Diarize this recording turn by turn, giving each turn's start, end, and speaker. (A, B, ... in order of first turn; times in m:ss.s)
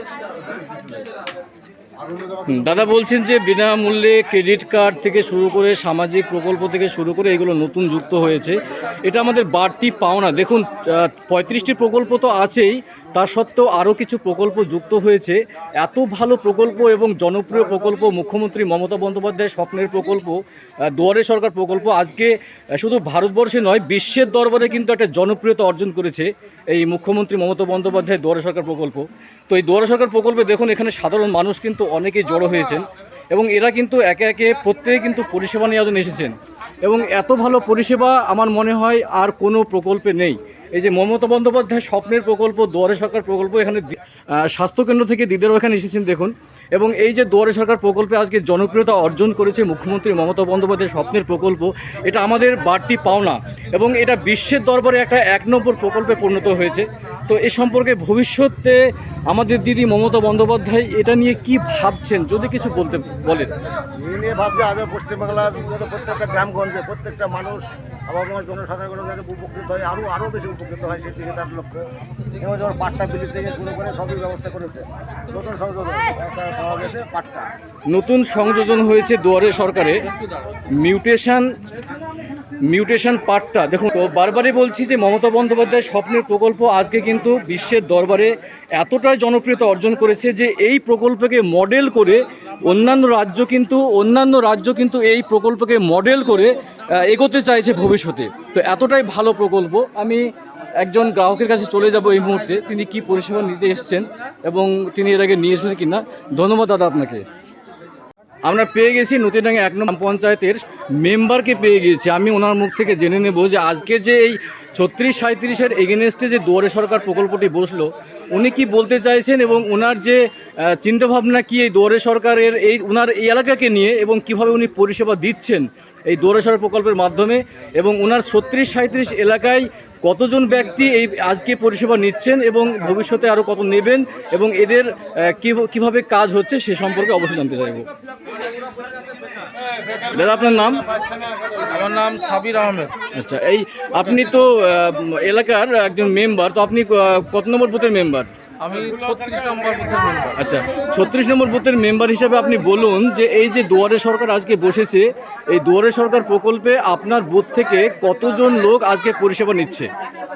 0:00.2-0:01.0 A
0:02.0-0:02.7 B
0:02.5-1:03.5 C
1:04.0-1:11.8 B
1:12.4-1:17.5 B
1:17.9-1:20.0 C
1:20.0-1:20.5 A
1:20.8-1:21.5 C
1:22.6-1:40.2 C
1:40.8-1:47.2 C
1:48.4-2:17.8 C
2:20.1-2:20.8 C
2:21.6-2:22.9 A
2:23.1-2:28.3 C
2:28.6-2:30.4 A
2:30.4-2:39.9 C